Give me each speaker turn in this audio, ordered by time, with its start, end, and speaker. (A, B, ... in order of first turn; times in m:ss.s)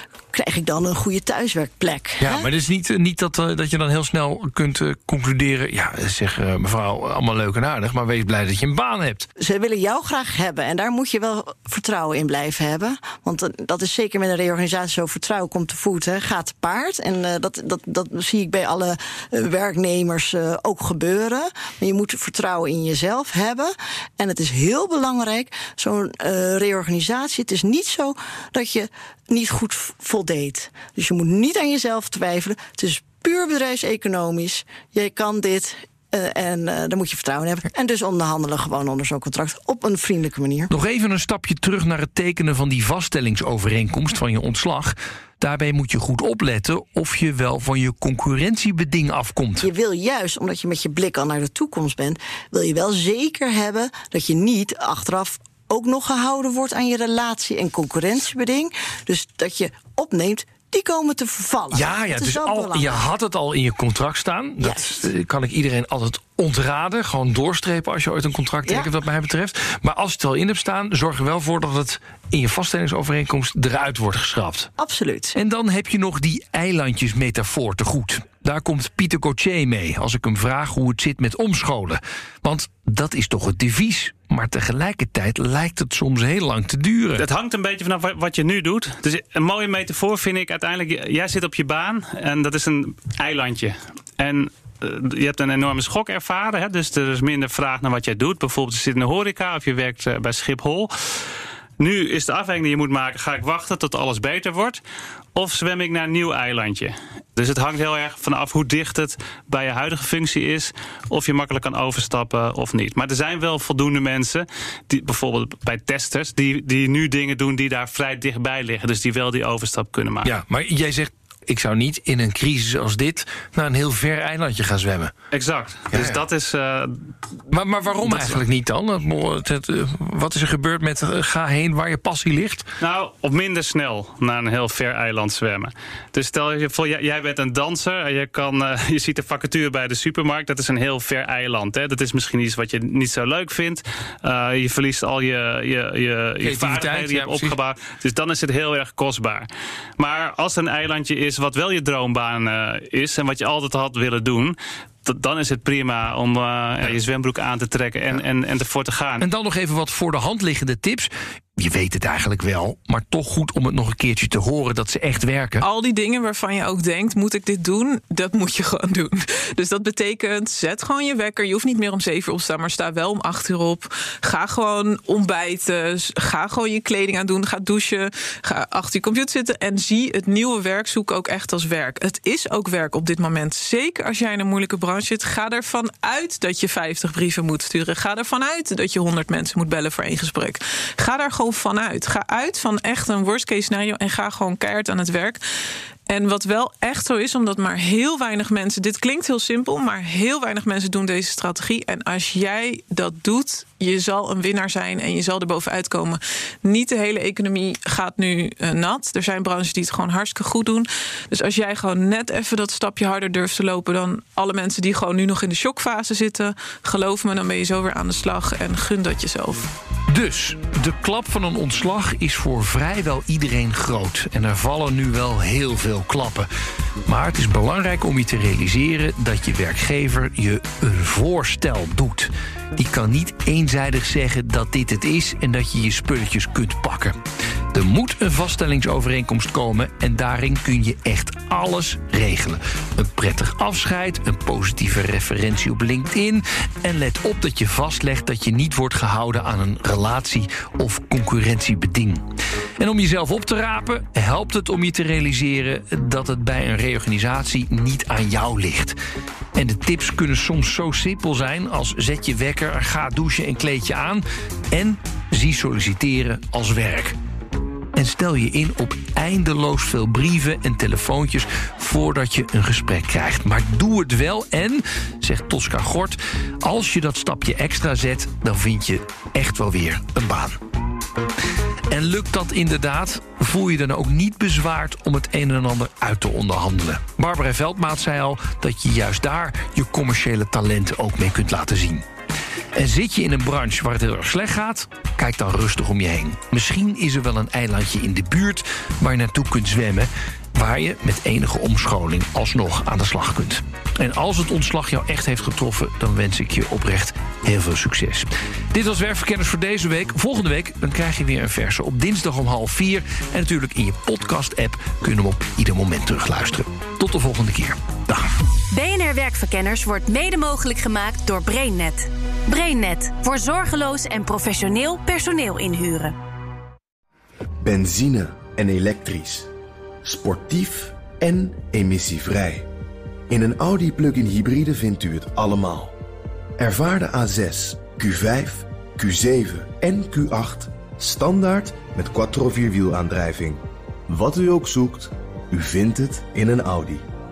0:00.3-0:02.5 A
0:02.2-0:09.3 B
0:09.4-0:40.7 A
0:40.7-0:49.7 B
0:49.6-1:03.0 A
1:01.7-1:14.7 B
1:04.6-1:05.0 A
1:08.6-1:08.9 A
1:14.8-1:15.4 A
1:15.3-1:27.2 B
1:27.2-1:41.2 C
1:41.8-1:44.8 C
1:45.3-2:00.3 C
2:00.2-2:05.1 B
2:05.3-2:07.1 C
2:05.9-2:06.2 B
2:07.5-2:12.7 B
2:08.0-2:08.4 C
2:12.8-2:39.2 C
2:26.4-2:27.6 B
2:39.2-2:45.6 B
2:45.6-3:15.4 D
3:16.1-3:39.7 D
3:40.1-3:46.5 B
3:47.0-3:57.2 B
3:57.7-4:19.0 B
4:19.5-4:27.2 B
4:27.9-4:40.6 B
4:41.9-4:52.0 B
4:52.7-5:18.3 B
5:18.7-5:26.1 E
5:27.6-5:29.5 F
5:30.0-5:32.7 F
5:33.3-5:35.9 F
5:36.6-5:47.0 F